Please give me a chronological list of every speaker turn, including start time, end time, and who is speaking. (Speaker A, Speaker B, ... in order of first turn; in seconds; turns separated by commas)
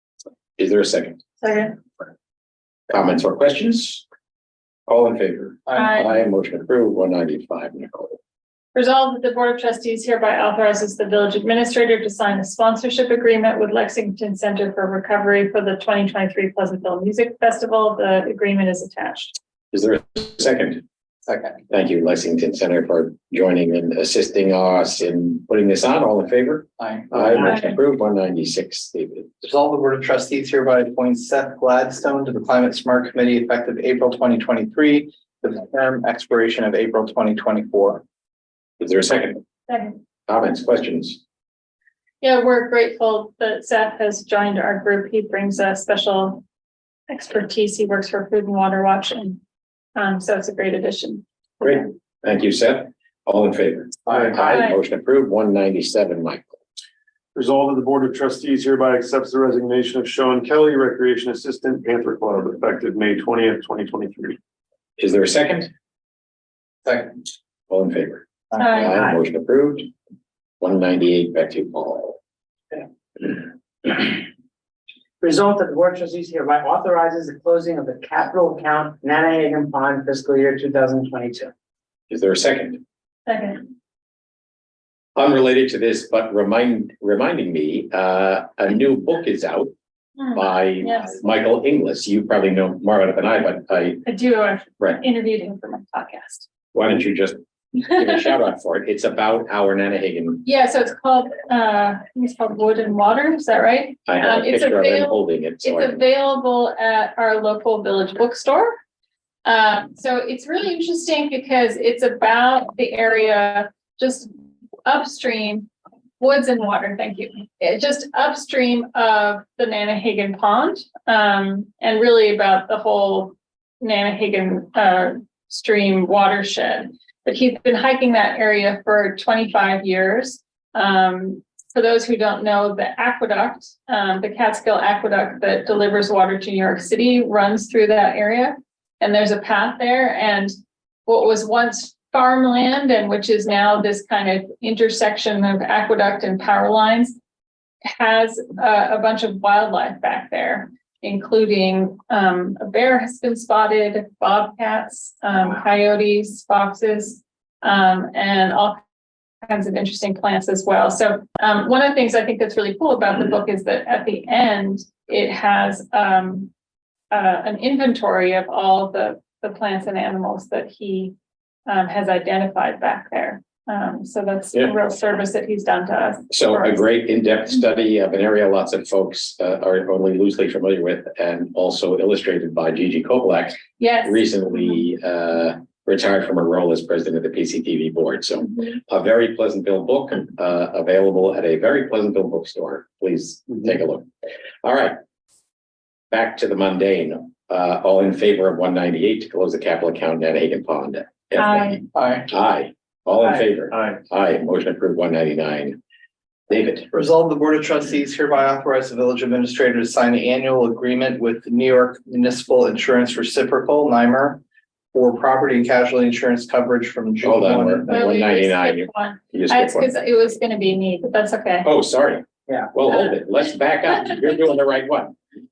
Speaker A: 0.6-1.2, Speaker B: 1.4-1.8, Speaker A: 2.9-4.0, Speaker A: 4.9-8.2, Speaker B: 5.7-6.1, Speaker B: 8.7-19.3, Speaker A: 19.7-20.8, Speaker C: 21.3-21.6, Speaker A: 21.7-29.3, Speaker C: 26.8-27.5, Speaker C: 29.4-38.0, Speaker A: 38.8-39.4, Speaker B: 39.7-40.0, Speaker A: 40.3-41.2, Speaker B: 42.2-46.4, Speaker B: 47.1-49.4, Speaker B: 50.0-51.9, Speaker A: 51.6-56.5, Speaker B: 54.5-54.8, Speaker D: 57.3-64.4, Speaker A: 65.0-65.7, Speaker C: 66.8-67.1, Speaker A: 67.7-69.9, Speaker B: 68.6-68.9, Speaker A: 70.6-72.2, Speaker E: 73.8-74.2, Speaker E: 75.2-81.5, Speaker A: 82.1-82.8, Speaker B: 83.2-83.6, Speaker A: 85.2-89.7, Speaker B: 90.2-91.2, Speaker A: 90.3-94.0, Speaker B: 94.0-96.5, Speaker A: 96.7-100.4, Speaker B: 100.4-108.7, Speaker A: 104.1-106.0, Speaker B: 109.4-114.3, Speaker B: 114.8-140.5, Speaker B: 141.1-147.2, Speaker B: 147.8-158.8, Speaker B: 159.4-166.5, Speaker B: 167.1-171.1, Speaker B: 171.7-176.8, Speaker A: 176.3-194.1, Speaker B: 183.8-184.8, Speaker A: 194.6-195.0, Speaker A: 196.1-205.8, Speaker B: 201.4-201.8, Speaker C: 201.9-202.3, Speaker D: 203.7-204.0, Speaker A: 206.5-206.9, Speaker C: 206.9-214.4, Speaker C: 214.9-217.9, Speaker A: 217.2-219.9, Speaker B: 217.9-221.7, Speaker A: 221.6-225.1